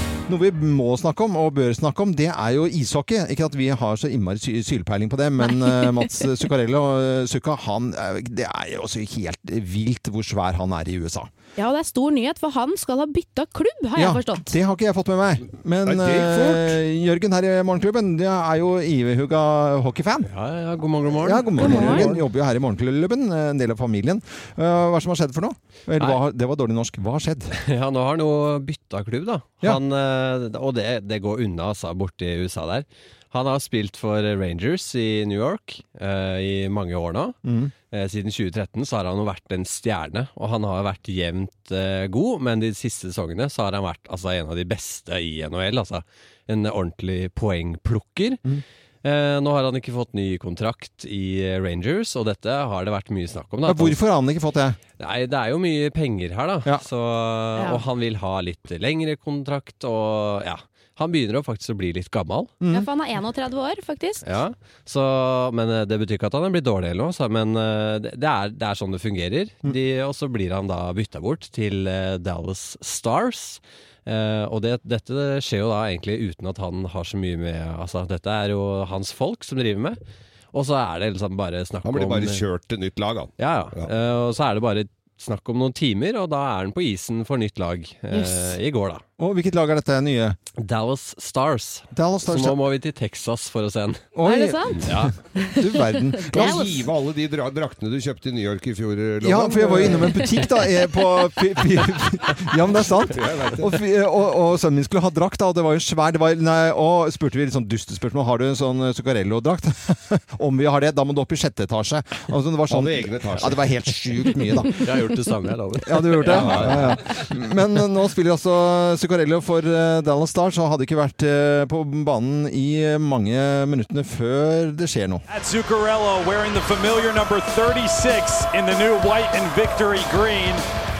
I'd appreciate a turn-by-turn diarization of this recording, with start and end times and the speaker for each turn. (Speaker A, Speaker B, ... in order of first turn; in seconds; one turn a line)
Speaker A: 0.3-11.3
Speaker B: 5.4-6.1
Speaker B: 11.6-14.5
Speaker A: 13.9-20.3
Speaker C: 15.8-16.8
Speaker D: 20.3-21.7
Speaker A: 21.2-27.6
Speaker C: 21.6-22.2
Speaker B: 21.6-22.1
Speaker D: 27.5-37.4
Speaker A: 37.4-37.7
Speaker D: 37.9-48.4
Speaker D: 49.0-54.0
Speaker A: 53.6-54.8
Speaker D: 55.0-62.5
Speaker B: 57.6-57.8
Speaker A: 62.6-62.9
Speaker B: 62.7-64.2
Speaker D: 64.2-80.0
Speaker D: 80.5-82.4
Speaker C: 81.8-83.9
Speaker D: 83.4-89.0
Speaker B: 88.1-88.5
Speaker A: 89.2-90.4
Speaker D: 90.6-94.0
Speaker A: 91.9-92.6
Speaker A: 94.1-96.7
Speaker B: 94.2-96.8
Speaker D: 94.9-95.1
Speaker C: 96.3-100.3
Speaker A: 99.2-114.9
Speaker B: 99.7-100.7
Speaker C: 103.0-103.8
Speaker C: 112.7-113.6
Speaker D: 114.7-117.0
Speaker A: 115.8-125.2
Speaker C: 116.3-116.9
Speaker E: 125.3-130.6